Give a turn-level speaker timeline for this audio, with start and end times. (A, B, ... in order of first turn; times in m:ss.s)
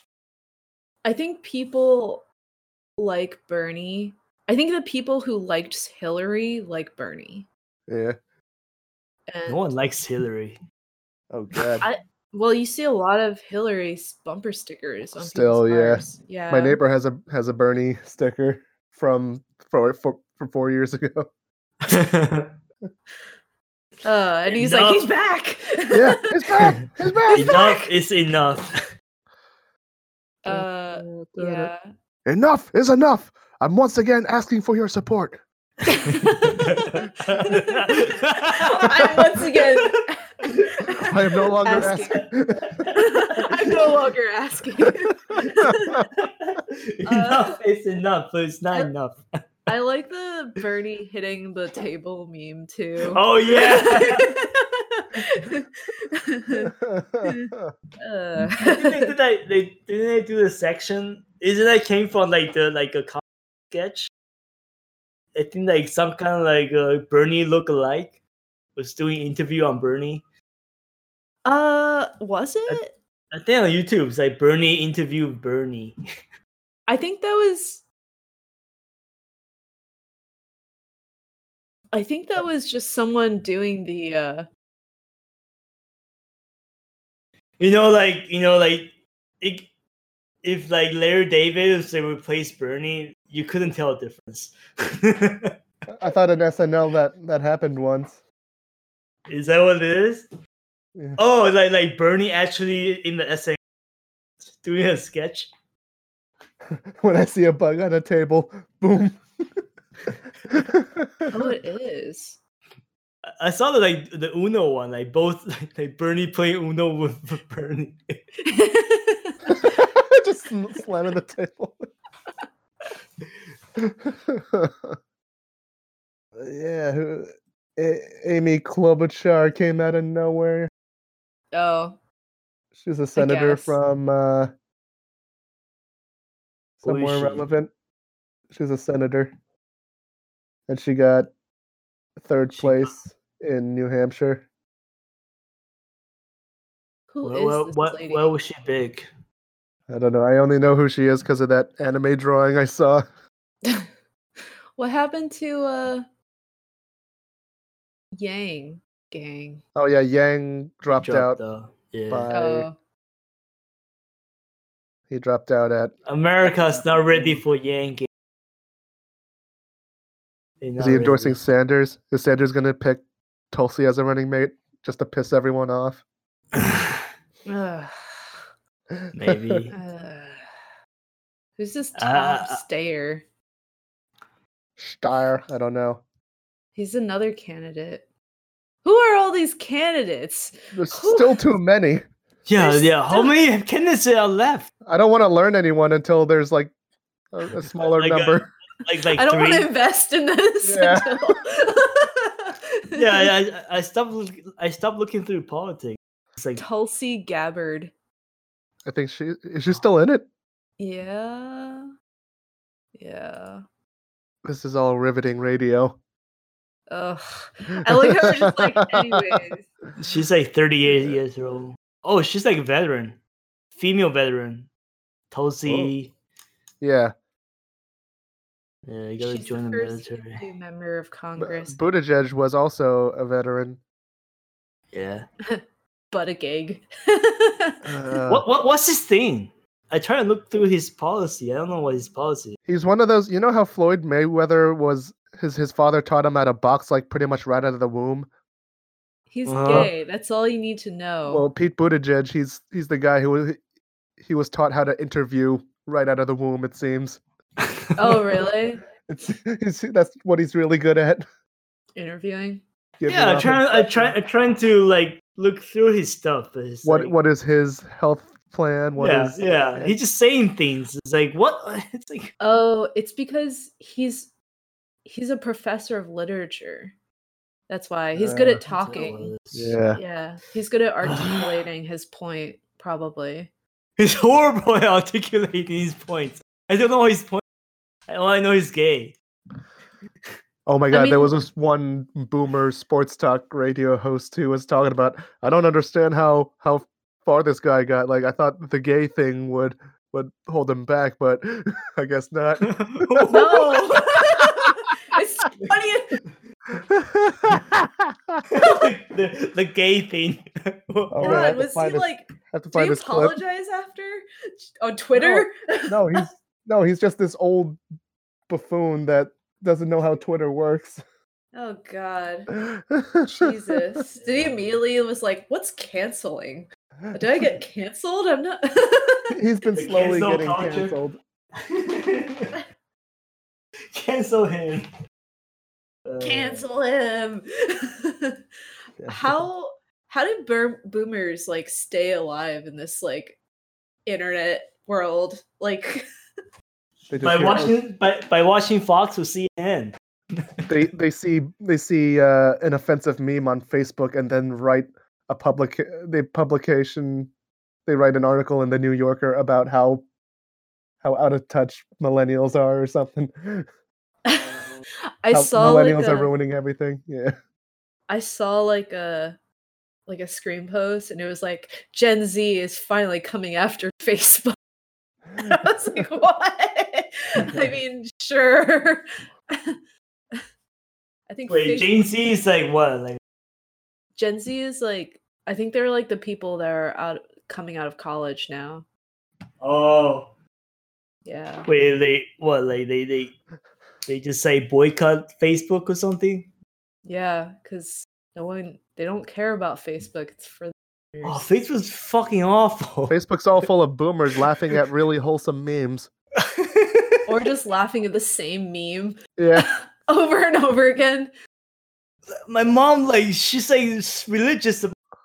0:01.0-0:02.2 A
0:03.0-0:07.5 A
0:07.9-0:08.2 B
0:09.3-0:09.6 A
0:09.5-0:10.6 C
0:11.3-0:11.9 B
0:11.8-0:16.8 A
0:15.2-0:21.3 B
0:21.8-0:22.5 C
0:24.0-0:26.7 A
0:24.5-0:25.1 C
0:25.9-0:27.5 B
0:27.3-0:27.9 A
0:27.3-0:28.8 C
0:30.4-0:31.9 A
0:30.5-0:31.7 C
0:32.2-0:35.4 B
0:35.8-0:42.3 A
0:36.6-0:40.6 C
0:41.0-0:42.8 B
0:41.6-0:43.9 C
0:42.9-0:46.1 A
0:45.4-0:45.9 B
0:46.2-0:49.2 C
0:47.0-0:47.6 A
0:49.7-0:56.7 A
0:53.1-0:54.3 C
0:56.6-0:57.7 B
0:57.2-0:59.1 A
0:58.6-1:04.1 C
1:05.3-1:08.2 C
1:08.8-1:10.2 C
1:11.4-1:12.9 A
1:13.3-1:16.0 C
1:16.9-1:17.8 A
1:21.9-1:24.5 A
1:27.6-1:29.7 C
1:30.4-1:35.5 C
1:35.9-1:38.2 B
1:39.3-1:40.3 C
1:41.2-1:43.6 C
1:44.5-1:45.5 C
1:46.7-1:49.2 B
1:50.5-1:51.3 B
1:51.3-1:52.4 A
1:53.4-1:58.2 C
1:58.4-1:59.7 A
1:59.5-2:01.9 B
2:03.8-2:05.0 B
2:06.4-2:10.7 B
2:11.5-2:12.0 A
2:12.7-2:14.5 B
2:13.2-2:13.8 A
2:16.8-2:17.7 B
2:16.8-2:17.4 C
2:18.5-2:19.3 B
2:20.7-2:21.3 B
2:22.2-2:24.4 B
2:22.6-2:22.9 C
2:27.1-2:28.3 A
2:27.2-2:29.1 C
2:29.9-2:33.0 B
2:34.8-2:36.0 A
2:38.1-2:39.6 A
2:39.7-2:41.4 B
2:41.0-2:42.3 C
2:42.1-2:42.7 B
2:42.3-2:42.8 A
2:45.1-2:45.9 B
2:46.0-2:48.1 C
2:46.6-2:47.4 A
2:50.6-2:51.4 C
2:50.8-2:56.0 B
2:56.5-2:57.0 C
2:57.4-2:58.2 A
2:58.9-2:59.6 B
2:59.1-2:59.8 C
2:59.7-3:00.5 A
3:01.6-3:03.2 A
3:02.0-3:02.6 C
3:04.8-3:06.0 B
3:06.7-3:08.0 A
3:08.8-3:11.4 A
3:10.7-3:12.0 B
3:12.5-3:14.7 C
3:12.6-3:13.3 A
3:14.8-3:16.7 B
3:17.3-3:18.5 B
3:17.8-3:19.7 C
3:19.1-3:23.3 A
3:20.6-3:21.2 B
3:22.9-3:26.6 C
3:26.6-3:27.9 A
3:28.8-3:30.2 B
3:30.8-3:31.9 A
3:32.9-3:33.6 A
3:34.4-3:36.0 B
3:36.9-3:39.7 A
3:37.9-3:39.4 B
3:40.0-3:43.2 C
3:40.9-3:41.2 B
3:43.7-3:44.7 C
3:45.3-3:46.1 C
3:45.6-3:45.9 B
3:46.8-3:47.1 B
3:48.9-3:50.4 C
3:49.2-3:51.8 A
3:51.4-3:53.8 B
3:54.9-3:55.2 C
3:55.5-3:57.8 A
3:57.8-3:58.4 B
3:58.3-4:02.6 C
4:02.7-4:08.3 B
4:09.3-4:11.4 A
4:09.4-4:09.9 C
4:09.6-4:09.9 B
4:11.3-4:13.6 B
4:14.2-4:17.2 B
4:18.0-4:18.8 A
4:19.1-4:21.2 B
4:22.0-4:22.6 A
4:23.0-4:24.1 B
4:23.1-4:27.1 C
4:26.8-4:29.9 B
4:29.0-4:32.3 C
4:32.4-4:34.3 A
4:35.0-4:36.9 A
4:37.7-4:39.3 A
4:38.2-4:38.6 B
4:38.6-4:39.8 C
4:39.5-4:40.0 B
4:39.9-4:43.5 A
4:41.0-4:41.5 C
4:44.0-4:47.4 C
4:48.1-4:49.2 C
4:50.6-5:03.5 B
4:50.9-4:51.3 A
5:02.6-5:04.0 C
5:03.3-5:06.2 A
5:06.8-5:08.4 B
5:08.5-5:11.6 C
5:11.1-5:13.4 B
5:11.2-5:14.2 A
5:14.8-5:16.3 A
5:15.2-5:17.8 B
5:18.5-5:21.0 B
5:21.5-5:22.5 A
5:22.5-5:23.5 B
5:23.2-5:29.3 A
5:29.3-5:31.2 B
5:29.8-5:31.0 C
5:31.6-5:32.6 C
5:33.9-5:34.8 C
5:36.0-5:36.6 C
5:36.2-5:38.4 A
5:39.1-5:43.4 A
5:44.0-5:46.0 A
5:47.1-5:47.8 B
5:47.2-5:50.7 C
5:50.7-5:57.3 B
5:57.8-6:00.0 B
6:01.0-6:03.7 B
6:04.2-6:04.6 A
6:05.2-6:06.3 A
6:05.3-6:07.3 B
6:08.1-6:09.4 A
6:10.1-6:14.6 A
6:15.4-6:19.8 A
6:21.3-6:22.0 A
6:21.5-6:23.2 C
6:24.2-6:28.8 A
6:29.6-6:30.3 C
6:31.2-6:31.7 A
6:31.6-6:33.4 C
6:34.0-6:36.5 C
6:37.0-6:41.5 A
6:41.2-6:43.2 C
6:43.1-6:46.1 B
6:46.4-6:47.2 C
6:47.2-6:51.3 A
6:49.4-6:49.7 B
6:52.4-6:54.9 C